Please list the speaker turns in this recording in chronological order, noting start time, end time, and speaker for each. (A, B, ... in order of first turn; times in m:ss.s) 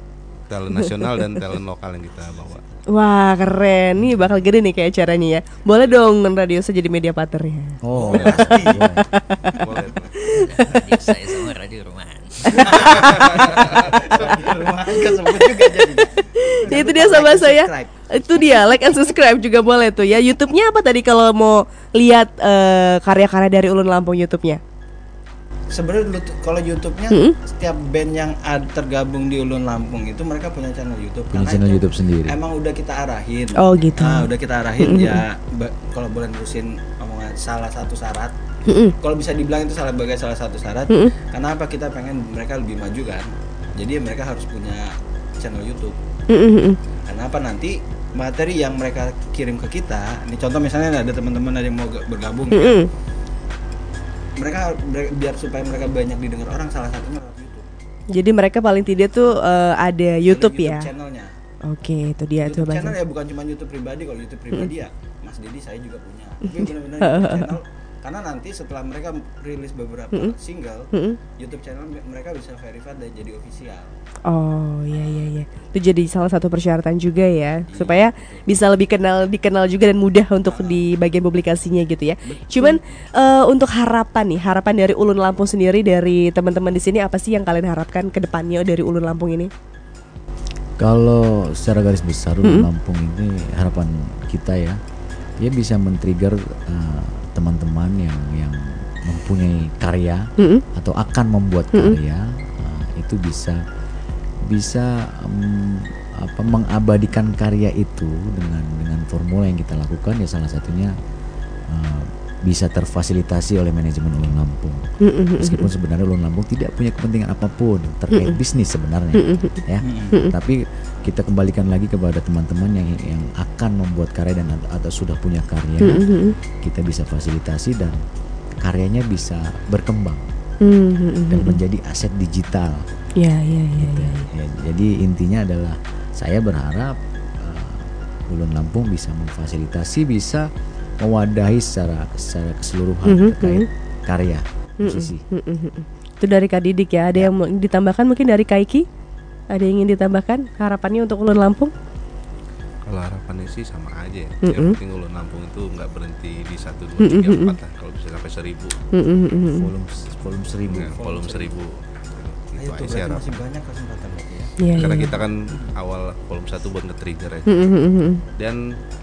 0:00.4-0:02.6 A
0:02.9-0:07.8 B
0:07.8-0:09.0 C
0:07.9-0:09.0 D
0:08.1-0:08.7 A
0:09.1-0:09.6 B
0:09.6-0:10.3 A
0:10.2-0:10.8 B
0:10.2-0:13.2 E
0:12.5-0:13.3 B
0:12.5-0:18.4 D
0:15.2-0:24.6 B
0:25.7-0:38.3 D
0:27.1-0:27.4 B
0:31.3-0:32.4 C
0:33.6-0:34.3 B
0:34.8-0:35.2 B
0:38.6-0:38.9 B
0:39.0-0:46.0 D
0:46.3-0:46.8 B
0:47.1-0:52.8 D
0:52.5-0:52.9 B
0:54.4-0:57.6 D
0:58.1-1:00.9 B
1:00.3-1:01.3 D
1:01.7-1:03.0 B
1:02.4-1:13.9 D
1:07.0-1:07.5 B
1:10.9-1:11.2 B
1:14.3-1:29.5 B
1:14.9-1:15.3 D
1:17.7-1:18.4 D
1:20.4-1:20.8 D
1:22.2-1:22.8 D
1:30.8-1:34.8 C
1:35.4-1:43.6 C
1:40.4-1:40.6 B
1:44.4-1:50.9 C
1:51.7-1:54.8 C
1:55.0-1:55.7 B
1:55.4-2:06.1 C
1:59.2-1:59.6 B
1:59.8-2:00.2 D
2:05.8-2:06.4 B
2:06.6-2:08.0 C
2:08.6-2:10.2 C
2:10.6-2:11.6 B
2:11.3-2:12.8 C
2:13.2-2:14.3 B
2:13.8-2:20.5 C
2:21.0-2:25.2 C
2:23.0-2:23.7 B
2:24.8-2:28.8 B
2:29.5-2:31.7 B
2:32.8-2:38.8 A
2:34.4-2:34.8 B
2:37.0-2:37.6 B
2:38.9-2:39.7 B
2:39.4-2:41.0 C
2:40.7-2:41.6 D
2:40.7-2:43.4 A
2:42.6-2:45.7 D
2:44.6-2:45.1 B
2:44.7-2:47.7 A
2:47.5-2:48.2 B
2:48.4-2:48.6 A